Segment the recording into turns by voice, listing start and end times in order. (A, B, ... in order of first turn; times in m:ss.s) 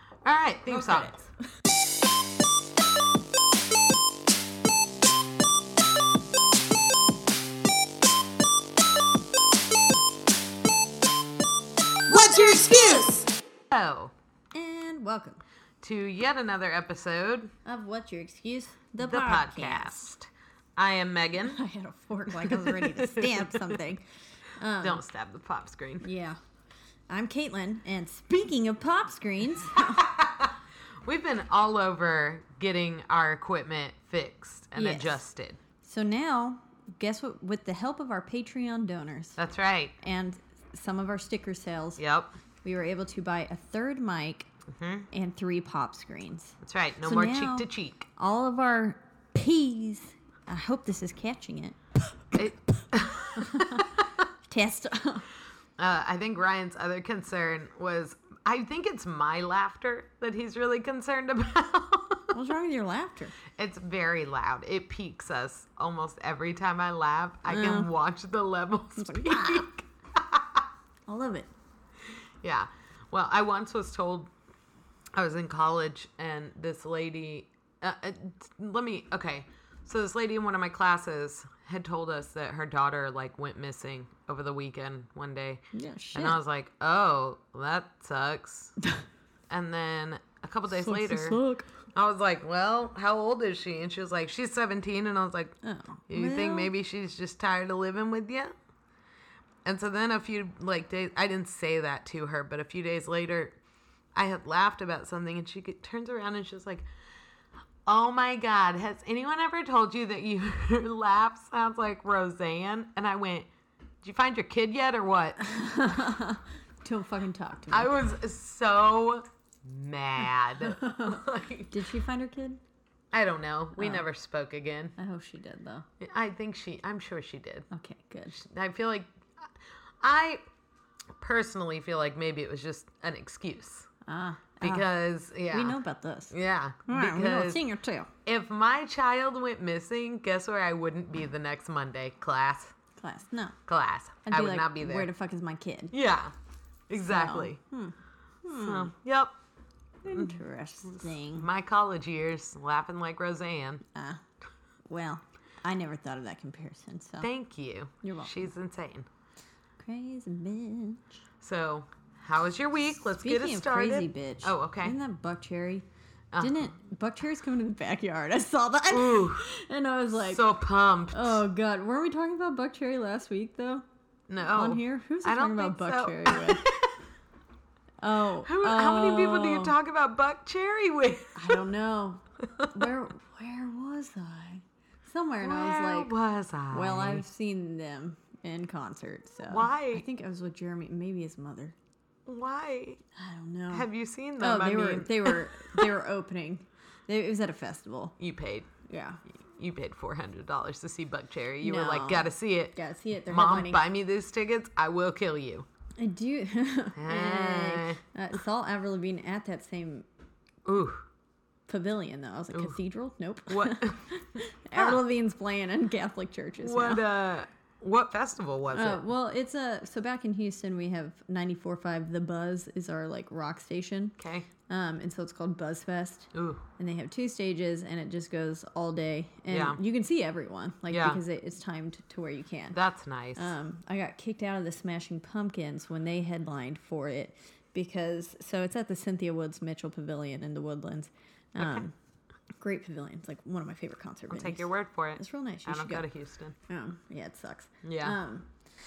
0:00.2-0:01.1 A
0:00.7-0:01.3 B
0:12.1-0:14.1 A
0:14.5-0:15.4 B
0:15.8-0:17.5 A
0:17.6-0:20.1 B
0:19.0-0:21.6 A
0:21.4-0:25.0 B
0:22.4-0:23.8 A
0:24.8-0:26.1 A
0:26.0-0:26.4 B
0:27.1-0:30.1 B
0:29.8-0:35.6 A
0:34.7-0:35.2 B
0:35.8-0:39.4 B
0:39.4-0:39.9 A
0:40.0-0:42.0 B
0:42.0-0:42.4 A
0:42.6-0:44.5 B
0:44.7-0:45.1 A
0:45.1-0:51.8 B
0:46.6-0:48.1 A
0:52.3-0:54.0 A
0:53.4-0:53.8 B
0:54.5-0:55.3 B
0:55.8-1:02.3 A
1:02.3-1:03.4 B
1:03.5-1:10.6 A
1:07.5-1:07.9 B
1:09.0-1:09.7 B
1:11.1-1:11.5 B
1:12.4-1:14.3 A
1:15.1-1:28.8 A
1:25.7-1:26.4 B
1:29.5-1:31.4 A
1:30.7-1:31.7 B
1:31.9-1:35.5 A
1:35.6-1:36.7 B
1:36.1-1:38.5 A
1:39.6-1:43.6 A
1:44.1-1:46.9 A
1:47.8-1:53.5 A
1:54.0-1:55.4 A
1:55.4-1:57.9 B
1:57.7-2:01.7 A
2:00.6-2:02.6 B
2:03.1-2:04.9 A
2:03.8-2:04.0 B
2:05.0-2:05.8 B
2:06.0-2:07.7 A
2:07.7-2:08.4 B
2:08.3-2:09.5 A
2:10.0-2:10.4 A
2:11.2-2:13.9 A
2:14.0-2:14.8 B
2:14.6-2:15.8 A
2:15.5-2:18.1 B
2:16.3-2:17.6 A
2:18.2-2:22.7 A
2:23.0-2:23.6 B
2:23.7-2:25.1 A
2:24.2-2:25.9 B
2:25.9-2:26.3 A
2:26.9-2:27.6 A
2:27.0-2:28.9 B
2:28.5-2:29.3 A
2:30.0-2:31.5 B
2:30.0-2:33.8 A
2:33.9-2:34.2 B
2:34.9-2:37.3 B
2:37.2-2:39.1 A
2:38.0-2:38.5 B
2:39.8-2:41.2 B
2:41.4-2:45.0 A
2:43.2-2:45.8 B
2:46.3-2:46.7 A
2:46.4-2:50.5 B
2:48.9-2:49.5 A
2:50.3-2:51.4 A
2:51.1-2:53.8 B
2:54.3-2:56.9 A
2:54.4-2:56.7 B
2:58.0-2:59.7 B
2:58.4-3:01.6 A
3:01.3-3:06.1 B
3:02.6-3:02.9 A
3:05.4-3:07.2 A
3:06.7-3:11.7 B
3:09.5-3:10.0 A
3:12.3-3:13.0 A
3:13.2-3:13.9 B
3:13.7-3:15.9 A
3:14.4-3:18.2 B
3:18.2-3:18.7 A
3:18.9-3:19.2 B
3:19.5-3:25.7 A
3:21.6-3:23.8 B
3:26.0-3:30.0 B
3:27.0-3:28.0 A
3:30.6-3:31.0 A
3:31.7-3:37.0 B
3:33.5-3:34.0 A
3:34.7-3:35.0 A
3:36.6-3:39.0 A
3:38.7-3:44.2 B
3:44.2-3:44.5 A
3:44.7-3:52.8 B
3:46.3-3:46.6 A
3:49.5-3:49.8 A
3:50.9-3:51.2 A
3:52.7-3:53.5 A
3:53.3-4:01.9 B
4:01.6-4:01.8 A
4:02.6-4:06.1 B
4:04.3-4:06.6 A
4:06.7-4:08.5 B
4:07.8-4:08.2 A